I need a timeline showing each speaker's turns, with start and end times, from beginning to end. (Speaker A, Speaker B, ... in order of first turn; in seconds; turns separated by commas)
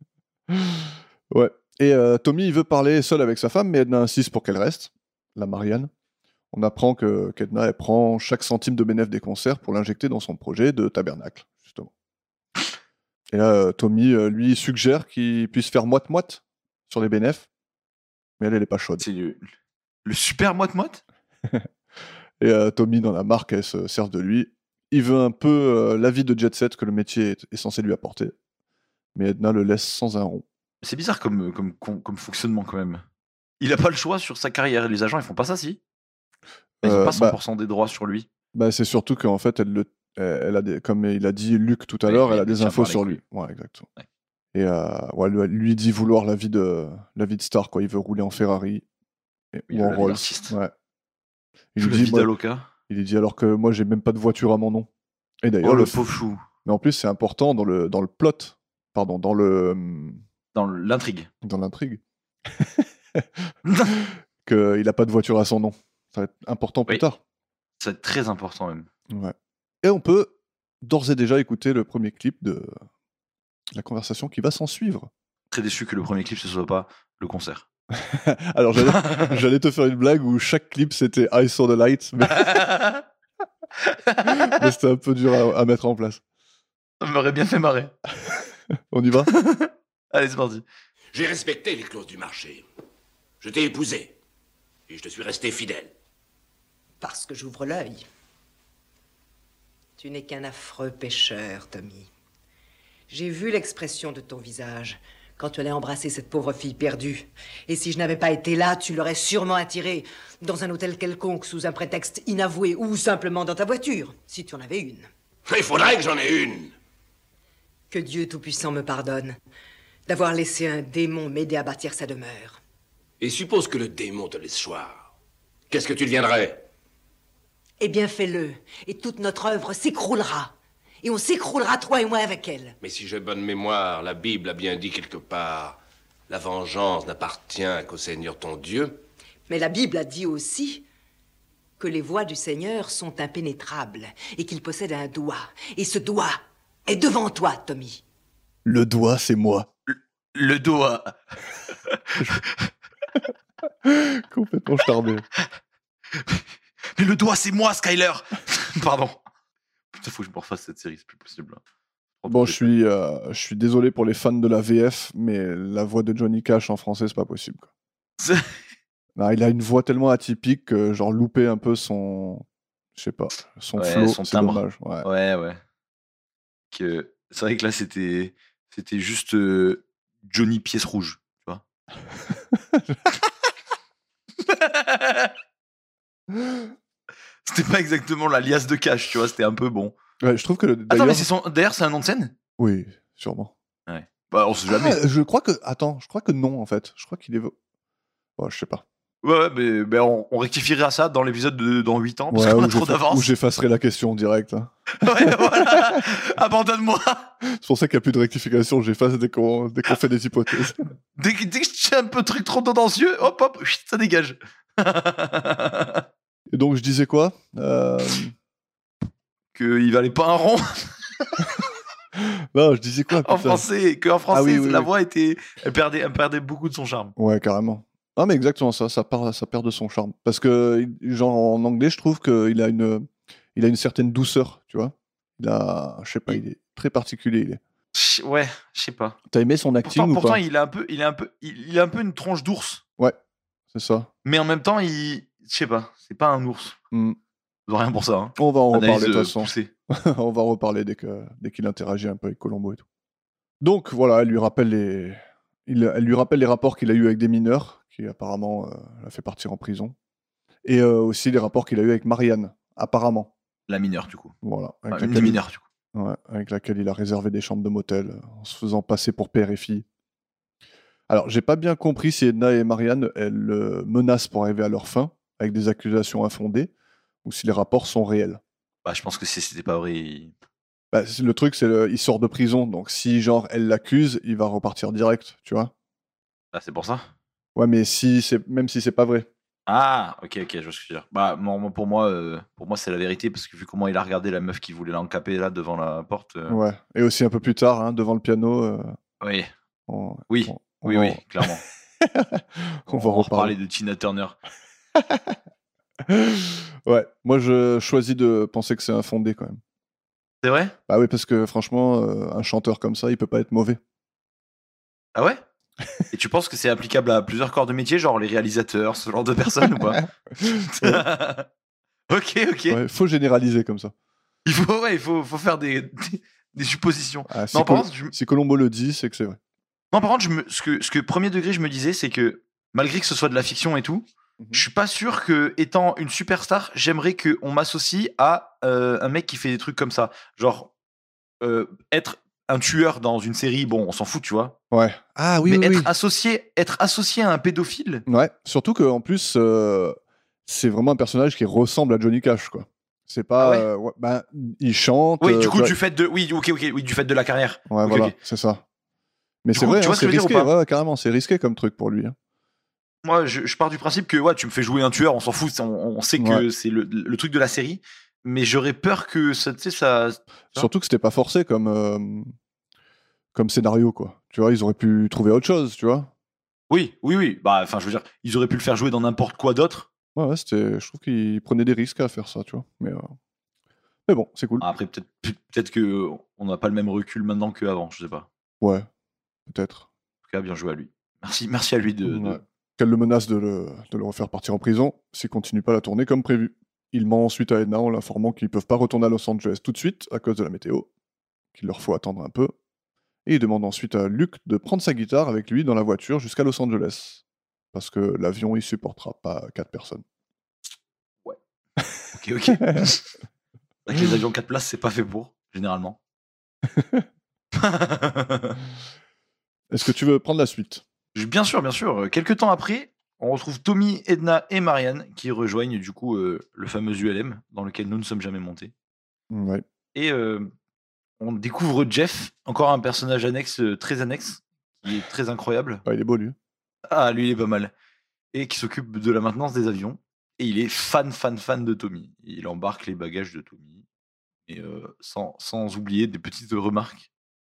Speaker A: 0.5-5.9, Speaker A: 6.5-11.9, Speaker A: 13.3-17.5, Speaker A: 18.4-19.0, Speaker B: 19.0-19.4, Speaker B: 20.0-21.0, Speaker A: 22.4-28.3, Speaker A: 29.1-30.4, Speaker B: 30.8-33.0, Speaker B: 33.6-35.8, Speaker A: 36.8-37.4, Speaker B: 36.8-38.3, Speaker A: 38.5-43.9, Speaker B: 42.0-43.2, Speaker A: 44.5-48.8, Speaker A: 49.5-50.7, Speaker B: 49.7-50.5, Speaker A: 51.7-52.3, Speaker B: 51.8-52.7, Speaker A: 52.9-54.9, Speaker A: 55.4-56.0, Speaker B: 55.6-56.4, Speaker A: 56.6-60.2, Speaker B: 60.5-61.3, Speaker A: 61.4-63.3, Speaker B: 63.6-63.9, Speaker A: 64.0-67.2, Speaker B: 67.8-68.9, Speaker A: 69.1-72.8, Speaker A: 73.7-75.1, Speaker B: 75.5-77.7, Speaker A: 77.9-82.6, Speaker B: 78.8-79.4, Speaker B: 82.2-83.0, Speaker B: 83.9-84.6, Speaker A: 84.2-86.2, Speaker B: 87.0-87.9, Speaker A: 88.9-89.3, Speaker B: 89.3-90.6, Speaker C: 91.1-92.6, Speaker C: 93.4-94.1, Speaker C: 94.9-95.9, Speaker D: 97.0-98.0, Speaker D: 100.0-102.1, Speaker D: 103.1-115.1, Speaker C: 115.5-116.7, Speaker D: 117.9-119.4, Speaker D: 120.1-122.6, Speaker C: 123.2-125.1, Speaker C: 125.7-126.6, Speaker D: 127.8-132.8, Speaker C: 132.8-139.0, Speaker D: 139.5-140.8, Speaker D: 141.8-148.0, Speaker A: 148.6-149.7, Speaker B: 149.9-151.2, Speaker B: 151.9-152.7, Speaker A: 153.8-155.2, Speaker B: 156.2-156.4, Speaker B: 156.9-159.2, Speaker B: 159.9-161.6, Speaker B: 162.2-162.7, Speaker A: 162.3-167.7, Speaker B: 168.2-168.5, Speaker A: 169.2-175.1, Speaker B: 173.8-175.6, Speaker B: 176.7-181.6, Speaker A: 182.5-182.8, Speaker B: 184.4-185.3, Speaker B: 187.4-189.9, Speaker A: 190.2-191.3, Speaker B: 190.9-192.3, Speaker A: 192.6-193.5, Speaker B: 193.9-195.0, Speaker A: 194.7-197.5, Speaker A: 198.4-198.8, Speaker B: 199.2-203.3, Speaker A: 202.3-206.0, Speaker B: 204.9-207.3, Speaker A: 207.4-210.8, Speaker B: 211.2-216.0, Speaker A: 216.5-218.3, Speaker B: 219.5-221.6, Speaker A: 222.2-223.7, Speaker B: 223.2-227.1, Speaker A: 224.3-224.9, Speaker A: 227.2-237.6, Speaker B: 237.9-239.2, Speaker A: 239.3-240.4, Speaker B: 239.8-242.8, Speaker A: 243.7-244.1, Speaker B: 244.2-246.8, Speaker A: 246.9-247.2, Speaker B: 247.7-249.7, Speaker A: 248.4-252.8, Speaker A: 253.6-259.9, Speaker A: 260.6-263.3, Speaker B: 263.7-264.3, Speaker A: 264.4-265.4, Speaker B: 264.9-265.6, Speaker A: 265.9-269.8, Speaker A: 271.1-276.7, Speaker A: 277.2-278.4, Speaker B: 278.8-280.3, Speaker A: 280.9-285.7, Speaker B: 286.5-287.1, Speaker A: 287.6-289.3, Speaker B: 289.7-296.6, Speaker A: 296.5-298.9, Speaker B: 299.2-299.5, Speaker A: 299.9-301.5, Speaker B: 300.3-301.6, Speaker A: 302.0-303.5, Speaker B: 302.9-304.4, Speaker A: 304.9-305.4, Speaker A: 306.0-309.6, Speaker B: 310.4-310.7, Speaker A: 310.9-313.8, Speaker B: 315.1-315.4, Speaker B: 316.1-321.5, Speaker B: 322.1-322.8, Speaker A: 322.7-323.9, Speaker B: 324.4-328.1, Speaker A: 327.3-329.4, Speaker B: 329.9-340.7, Speaker B: 341.4-344.6, Speaker A: 344.7-345.9, Speaker B: 345.4-348.0, Speaker A: 348.1-355.8, Speaker B: 353.4-353.7, Speaker B: 355.2-358.1, Speaker A: 357.7-358.6, Speaker A: 359.4-362.1, Speaker B: 359.5-360.5, Speaker B: 363.0-370.7, Speaker A: 366.2-366.4, Speaker A: 370.5-372.3, Speaker A: 373.3-376.1, Speaker B: 376.7-379.9, Speaker A: 380.1-383.1, Speaker A: 384.1-384.6, Speaker B: 384.6-388.3, Speaker A: 388.6-388.9, Speaker A: 389.5-389.9, Speaker B: 390.3-392.4, Speaker A: 392.1-400.9, Speaker A: 401.5-402.5, Speaker A: 403.2-407.2, Speaker A: 407.7-410.0, Speaker B: 412.1-413.1, Speaker A: 412.6-412.9, Speaker B: 413.9-416.0, Speaker A: 416.7-417.0, Speaker B: 417.5-418.6, Speaker A: 419.7-420.8, Speaker B: 421.1-428.7, Speaker A: 429.3-429.6, Speaker B: 429.9-430.5, Speaker B: 431.2-435.8, Speaker A: 435.9-436.3, Speaker B: 436.9-437.7, Speaker B: 438.3-443.8, Speaker B: 444.5-447.1